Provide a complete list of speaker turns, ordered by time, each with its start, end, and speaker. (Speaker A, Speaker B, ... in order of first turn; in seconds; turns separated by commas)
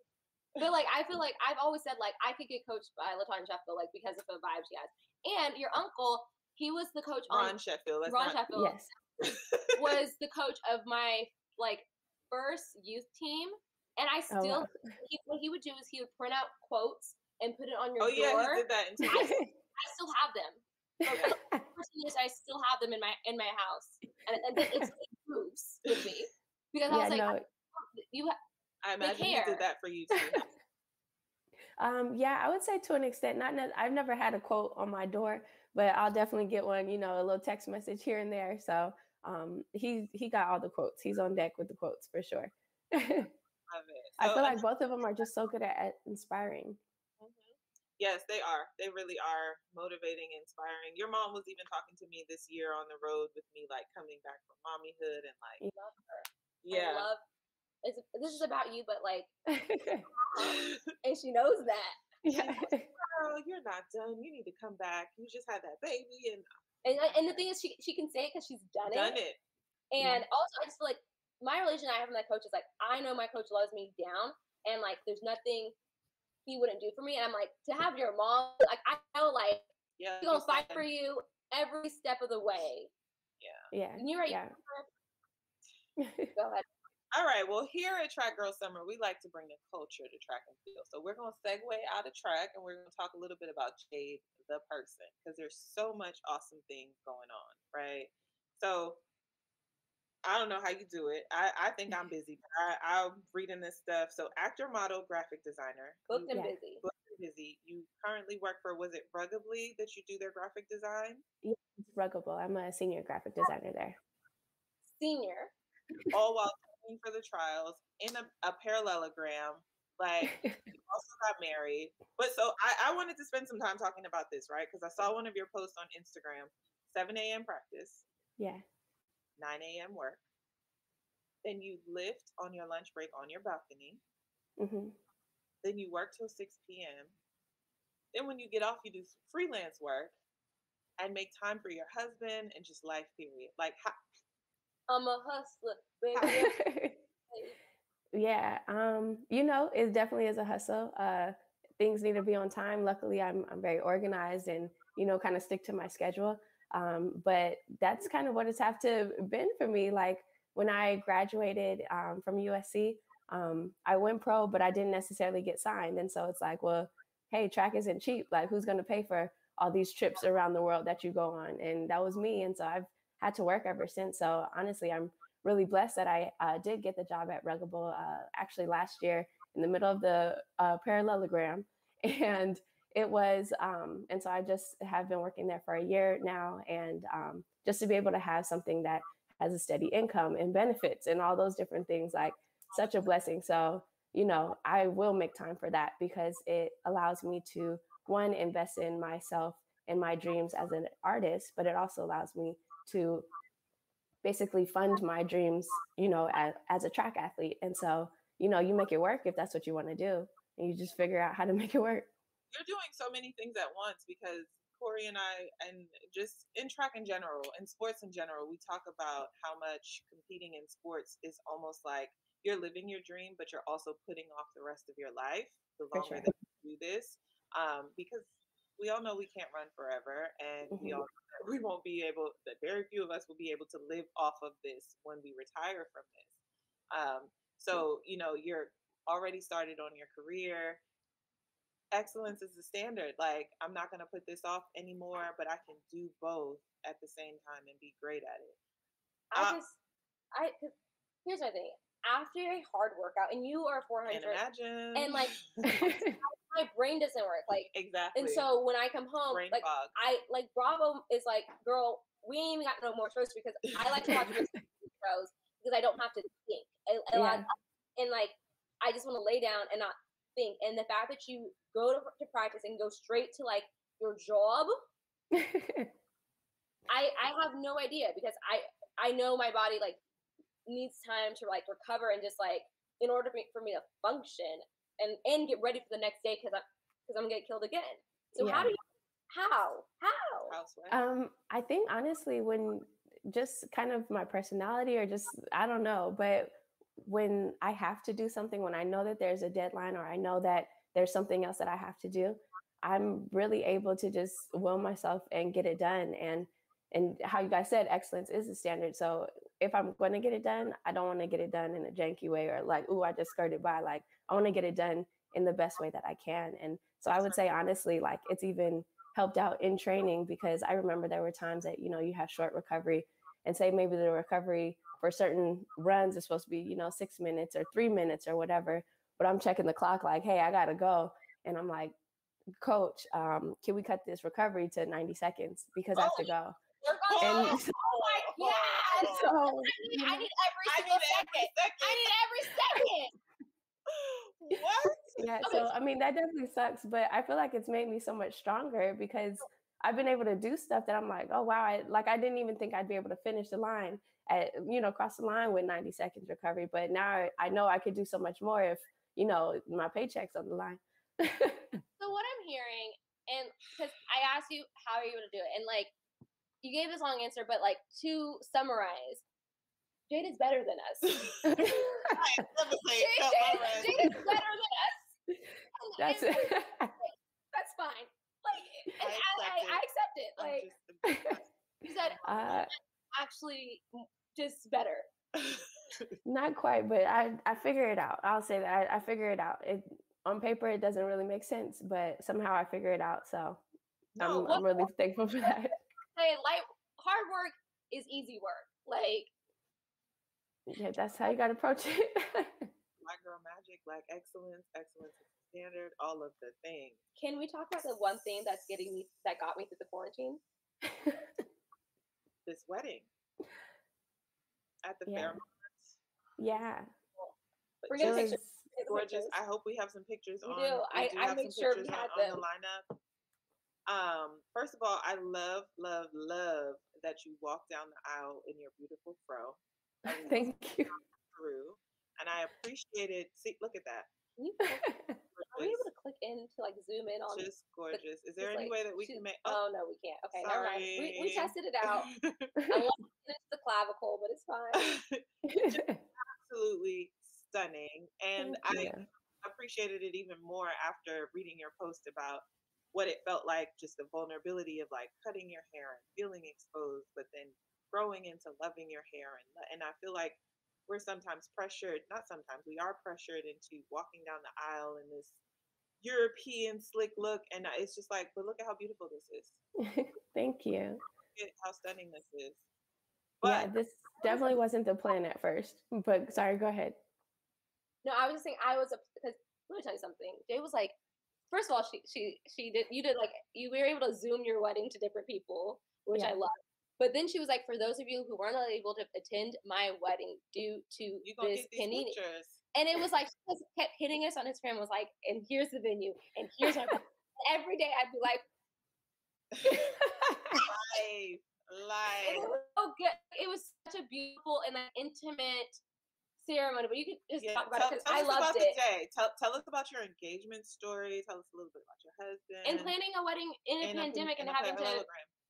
Speaker A: 0.6-7.5, Speaker B: 7.3-8.4, Speaker A: 8.1-8.8, Speaker C: 8.5-8.9, Speaker B: 9.3-9.8, Speaker A: 9.7-28.4, Speaker C: 14.3-14.9, Speaker B: 18.0-19.3, Speaker C: 19.1-19.5, Speaker C: 21.1-21.6, Speaker C: 24.6-24.9, Speaker C: 26.9-27.4, Speaker B: 28.8-30.4, Speaker A: 29.0-29.6, Speaker C: 30.1-30.4, Speaker C: 31.8-43.3, Speaker B: 43.7-44.6, Speaker C: 44.2-46.8, Speaker B: 47.2-55.6, Speaker A: 55.7-57.2, Speaker B: 56.6-57.1, Speaker A: 57.8-59.3, Speaker C: 59.5-60.1, Speaker A: 60.1-62.0, Speaker B: 60.4-60.8, Speaker C: 62.2-62.9, Speaker B: 62.4-66.5, Speaker A: 66.8-69.2, Speaker B: 67.0-67.5, Speaker B: 68.8-69.4, Speaker A: 69.9-75.8, Speaker A: 76.5-79.7, Speaker B: 80.0-80.8, Speaker A: 80.2-82.9, Speaker B: 83.4-83.7, Speaker C: 83.7-84.5, Speaker A: 84.0-84.9, Speaker C: 86.0-86.3, Speaker A: 86.3-86.7, Speaker B: 87.1-99.0, Speaker B: 100.2-111.2, Speaker A: 106.1-106.8, Speaker C: 106.3-106.6, Speaker C: 111.4-114.0, Speaker A: 115.0-115.5, Speaker B: 116.1-128.0, Speaker C: 120.2-120.7, Speaker C: 128.4-128.6, Speaker B: 129.4-130.2, Speaker B: 131.4-134.0, Speaker C: 134.6-134.9, Speaker B: 135.6-137.1, Speaker B: 138.1-140.1, Speaker B: 141.0-144.0, Speaker A: 144.9-146.6, Speaker B: 146.1-146.4, Speaker C: 146.2-146.9, Speaker A: 147.3-147.6, Speaker C: 148.1-203.3, Speaker C: 204.2-212.1, Speaker B: 212.5-236.3, Speaker C: 225.9-226.3, Speaker C: 230.7-231.0, Speaker B: 236.9-240.8, Speaker B: 241.9-248.6, Speaker A: 249.3-249.8, Speaker B: 249.3-249.6, Speaker A: 250.3-250.7, Speaker A: 251.2-254.4, Speaker B: 254.1-255.8, Speaker A: 254.9-274.8, Speaker C: 255.6-256.2, Speaker B: 257.7-258.4, Speaker B: 259.3-259.9, Speaker C: 267.1-267.4, Speaker C: 275.3-275.9, Speaker A: 276.9-280.0, Speaker A: 280.6-290.5, Speaker C: 288.4-288.7, Speaker B: 290.5-291.0, Speaker C: 290.9-331.9, Speaker B: 317.1-317.4, Speaker C: 332.6-336.6, Speaker B: 335.9-336.3, Speaker A: 336.1-343.1, Speaker B: 337.1-339.3, Speaker C: 337.2-337.8, Speaker C: 339.0-340.3, Speaker B: 340.6-342.1, Speaker B: 343.9-345.6, Speaker C: 345.1-361.7, Speaker A: 345.4-345.7, Speaker A: 362.0-365.9, Speaker A: 366.6-369.2, Speaker A: 370.1-372.0, Speaker B: 371.1-374.2, Speaker C: 371.4-372.2, Speaker A: 373.0-375.1, Speaker A: 375.8-380.7, Speaker C: 376.0-376.9, Speaker B: 379.0-379.8, Speaker B: 380.4-382.6, Speaker C: 381.1-381.4, Speaker A: 381.8-385.1, Speaker C: 382.2-382.7, Speaker B: 385.4-386.1, Speaker C: 386.2-393.6, Speaker B: 394.2-394.6, Speaker C: 394.2-395.8, Speaker A: 396.1-399.3, Speaker C: 400.7-402.7, Speaker B: 403.0-407.0, Speaker A: 407.2-410.4, Speaker C: 410.9-411.2, Speaker B: 412.4-413.1, Speaker B: 414.8-415.9, Speaker C: 415.1-415.4, Speaker C: 416.4-416.9, Speaker B: 417.8-422.9, Speaker A: 417.9-419.4, Speaker C: 418.0-418.6, Speaker A: 420.4-422.4, Speaker B: 423.9-434.1, Speaker C: 430.1-430.9, Speaker A: 434.4-434.9, Speaker C: 434.8-435.2, Speaker B: 435.3-435.9, Speaker A: 435.5-442.1, Speaker B: 437.3-439.6, Speaker B: 440.4-442.5, Speaker C: 442.6-442.8, Speaker A: 442.7-444.9, Speaker B: 444.7-465.4, Speaker C: 445.5-446.0, Speaker C: 448.4-449.1, Speaker B: 466.0-469.6, Speaker C: 469.8-471.0, Speaker B: 471.3-472.6, Speaker B: 473.4-473.7, Speaker C: 473.4-477.0, Speaker A: 474.2-474.6, Speaker A: 478.0-480.9, Speaker A: 481.5-492.1, Speaker C: 486.1-486.4, Speaker B: 491.2-492.6, Speaker A: 492.7-498.4, Speaker C: 496.6-496.9, Speaker C: 499.7-500.6, Speaker B: 500.6-502.5, Speaker A: 502.2-505.8, Speaker A: 506.4-508.8, Speaker B: 507.4-513.0, Speaker A: 512.6-515.0, Speaker B: 513.8-515.3